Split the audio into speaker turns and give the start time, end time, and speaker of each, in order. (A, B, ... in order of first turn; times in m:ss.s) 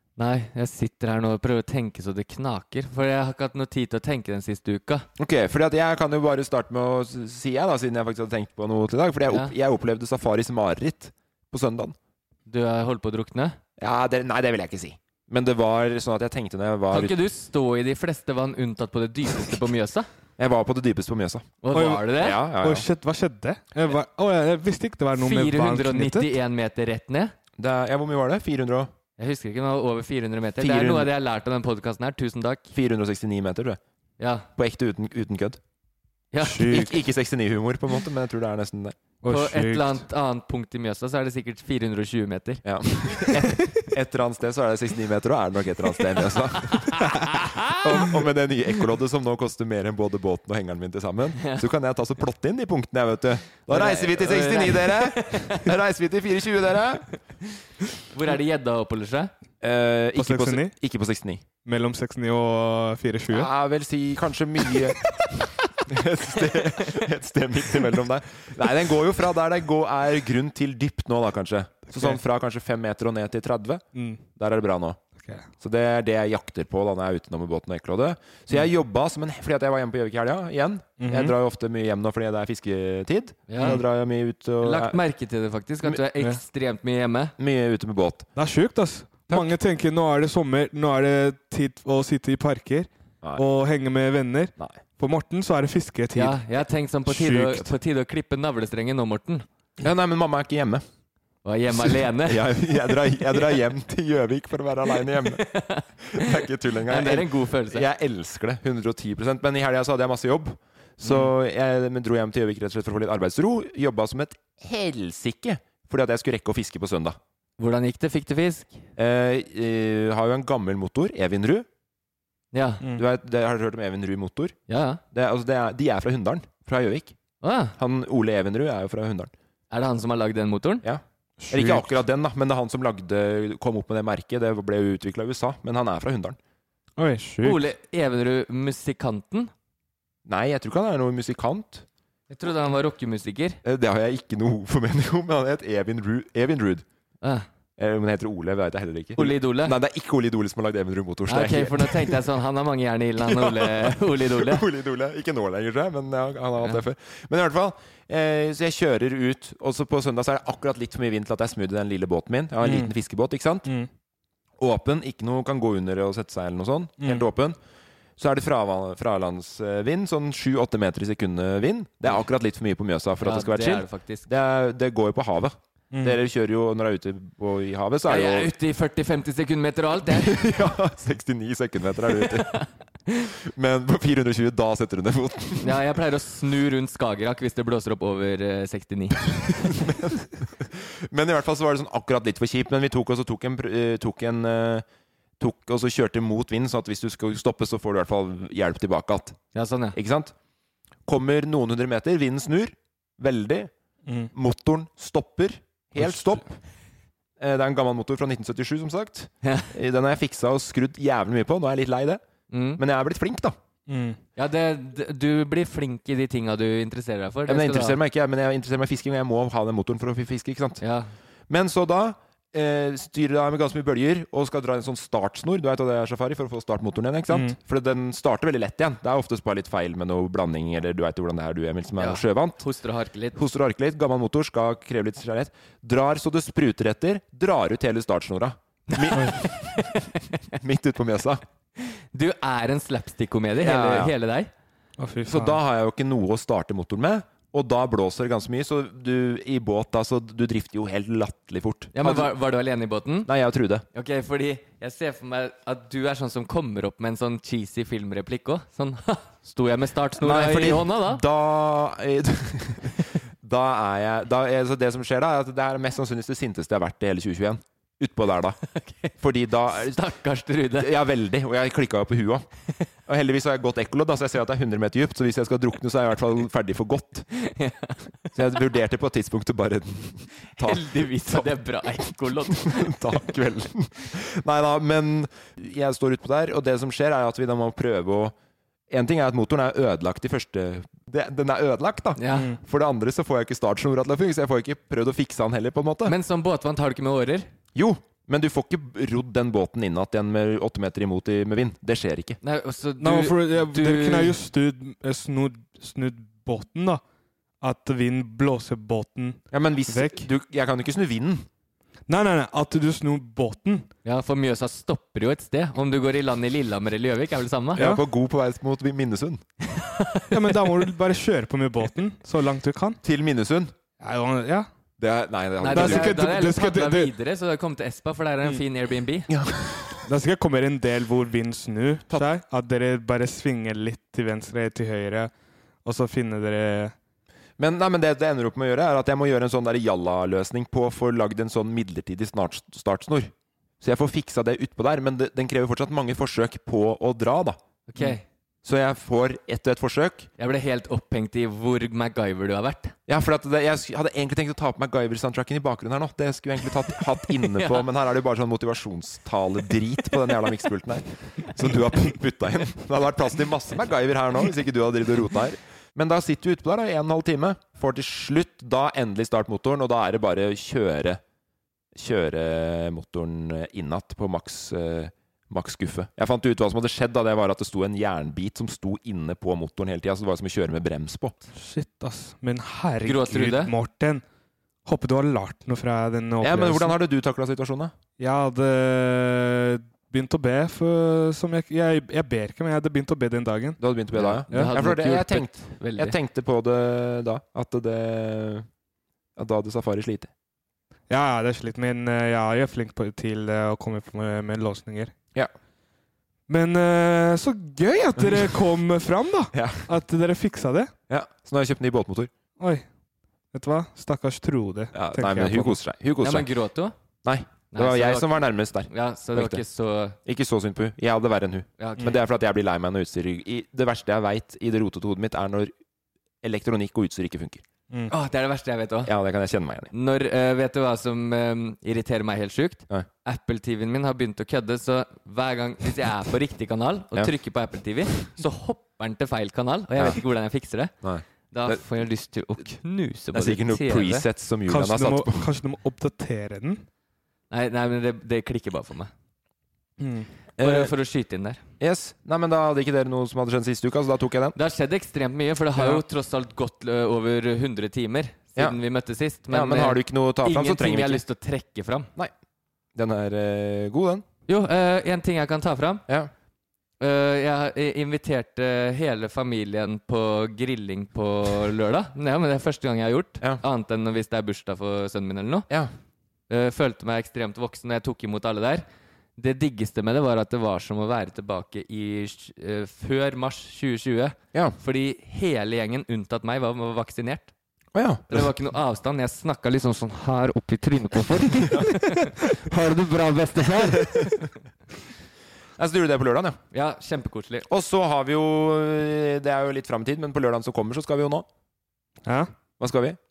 0:00.2-0:05.1 A
0:05.2-0:12.0 B
0:09.3-0:09.5 A
0:12.5-0:13.6 A
0:13.8-0:17.2 B
0:16.9-0:20.1 A
0:20.4-0:21.5 B
0:21.6-0:22.4 A
0:21.7-0:26.3 C
0:22.1-0:22.9 B
0:25.2-0:27.3 A
0:27.6-0:28.9 B
0:29.2-0:32.7 A
0:30.6-0:31.1 B
0:32.7-0:33.8 B
0:34.2-0:34.5 A
0:34.6-0:35.6 B
0:36.3-0:36.8 A
0:36.4-0:37.0 C
0:36.7-0:39.0 B
0:39.2-0:40.0 C
0:39.3-0:43.3 A
0:42.6-0:57.1 B
0:46.1-0:48.2 A
0:51.4-0:51.6 A
0:53.7-0:55.6 A
0:58.1-0:59.3 A
0:59.6-1:01.5 B
1:00.2-1:00.8 C
1:01.6-1:03.5 C
1:03.3-1:05.0 B
1:05.9-1:15.0 B
1:11.9-1:12.2 C
1:14.0-1:14.2 C
1:15.6-1:25.0 B
1:21.0-1:21.4 C
1:23.5-1:23.8 A
1:24.6-1:27.3 A
1:27.4-1:28.3 B
1:28.4-1:36.4 C
1:29.3-1:29.6 B
1:36.2-1:39.5 A
1:37.1-1:37.7 C
1:39.8-1:40.8 B
1:41.4-1:43.6 A
1:41.7-1:45.4 B
1:44.9-1:46.3 A
1:46.1-1:57.2 B
1:46.9-1:47.9 A
1:51.0-1:51.3 A
1:57.6-1:58.8 A
1:59.0-2:01.7 B
2:02.5-2:02.8 A
2:03.0-2:04.6 B
2:04.7-2:05.0 A
2:05.1-2:07.2 B
2:07.4-2:07.8 A
2:07.8-2:09.3 B
2:09.7-2:10.8 A
2:10.8-2:16.4 B
2:11.4-2:11.9 C
2:17.0-2:17.6 C
2:17.4-2:19.5 A
2:20.3-2:21.8 B
2:22.3-2:23.6 A
2:23.6-2:26.8 B
2:27.8-2:32.2 B
2:29.2-2:29.8 A
2:31.3-2:34.6 A
2:33.2-2:43.7 B
2:42.6-2:42.9 C
2:44.6-2:47.6 B
2:48.2-2:58.5 B
2:53.2-2:54.3 A
2:55.9-2:56.2 C
2:58.1-3:00.3 A
3:00.1-3:02.7 B
3:02.2-3:03.2 A
3:03.6-3:05.8 B
3:05.6-3:09.7 A
3:09.8-3:14.8 B
3:15.4-3:19.4 B
3:19.6-3:20.0 A
3:19.9-3:20.3 B
3:21.1-3:23.7 B
3:24.3-3:26.5 B
3:26.0-3:26.4 C
3:27.4-3:32.2 B
3:29.4-3:29.7 A
3:32.5-3:32.8 A
3:32.8-3:33.6 B
3:33.9-3:34.2 C
3:34.4-3:38.0 A
3:37.5-3:40.8 B
3:40.8-3:41.1 A
3:41.5-3:52.6 B
3:47.3-3:47.6 C
3:52.0-3:53.4 A
3:53.4-3:59.7 B
3:58.9-4:00.0 A
4:00.6-4:01.4 B
4:01.8-4:04.5 A
4:03.6-4:04.1 B
4:05.0-4:05.6 C
4:05.3-4:12.3 B
4:11.9-4:13.3 A
4:13.3-4:13.8 B
4:13.9-4:21.2 A
4:20.2-4:28.6 B
4:28.8-4:29.1 A
4:29.2-4:30.0 B
4:29.7-4:30.9 A
4:30.8-4:32.5 B
4:33.1-4:37.3 B
4:37.5-4:38.0 A
4:38.3-4:48.3 B
4:40.6-4:43.2 A
4:48.9-4:56.1 B
4:52.2-4:52.5 A
4:52.3-4:52.6 C
4:56.0-4:57.5 A
4:57.8-5:02.4 B
5:02.4-5:04.4 A
5:03.0-5:07.0 C
5:07.6-5:10.3 C
5:09.5-5:11.5 B
5:12.1-5:13.9 C
5:14.0-5:17.9 A
5:17.8-5:19.4 B
5:19.7-5:20.8 A
5:20.3-5:23.0 C
5:23.0-5:23.7 B
5:24.0-5:24.7 C
5:25.0-5:26.4 B
5:25.6-5:29.3 A
5:25.7-5:27.1 C
5:29.3-5:30.0 B
5:30.1-5:35.3 C
5:35.8-5:36.9 C
5:37.6-5:47.6 B
5:47.9-5:48.2 A
5:48.6-5:50.3 B
5:50.4-5:53.0 A
5:53.1-6:11.2 B
5:57.4-5:57.9 A
6:12.0-6:21.4 B
6:21.6-6:24.2 C
6:23.0-6:23.7 A
6:24.8-6:27.0 C
6:26.4-6:28.0 B
6:28.2-6:33.8 C
6:33.8-6:38.7 B
6:34.1-6:36.2 A
6:34.5-6:34.8 C
6:39.4-6:40.3 B
6:41.1-6:45.1 C
6:46.5-6:50.9 C
6:48.2-6:48.5 B
6:49.5-6:49.9 B
6:51.1-6:52.3 B
6:52.6-6:52.8 C
6:53.5-6:55.8 C
6:54.9-6:56.5 B
6:56.2-6:56.9 A
6:57.2-6:59.6 B
6:57.7-7:00.2 A
7:00.3-7:05.7 B
7:01.8-7:02.2 A
7:06.4-7:07.6 B
7:08.1-7:09.1 A
7:09.0-7:09.9 B
7:09.9-7:20.9 A
7:21.0-7:21.8 B
7:21.5-7:24.2 A
7:23.3-7:25.5 B
7:24.7-7:26.8 C
7:27.5-7:29.1 A
7:30.0-7:30.3 C
7:30.6-7:30.9 B
7:30.6-7:31.6 A
7:31.8-7:34.6 B
7:34.6-7:42.1 A
7:35.8-7:36.0 C
7:39.5-7:41.2 B
7:43.0-7:44.2 B
7:44.5-7:46.0 A
7:47.0-7:55.7 A
7:56.5-7:58.8 A
7:59.4-8:07.5 A
8:08.0-8:08.5 B
8:08.3-8:14.4 A
8:15.8-8:16.6 B
8:16.7-8:17.7 A
8:17.7-8:21.5 B
8:22.3-8:22.5 C
8:22.8-8:23.2 B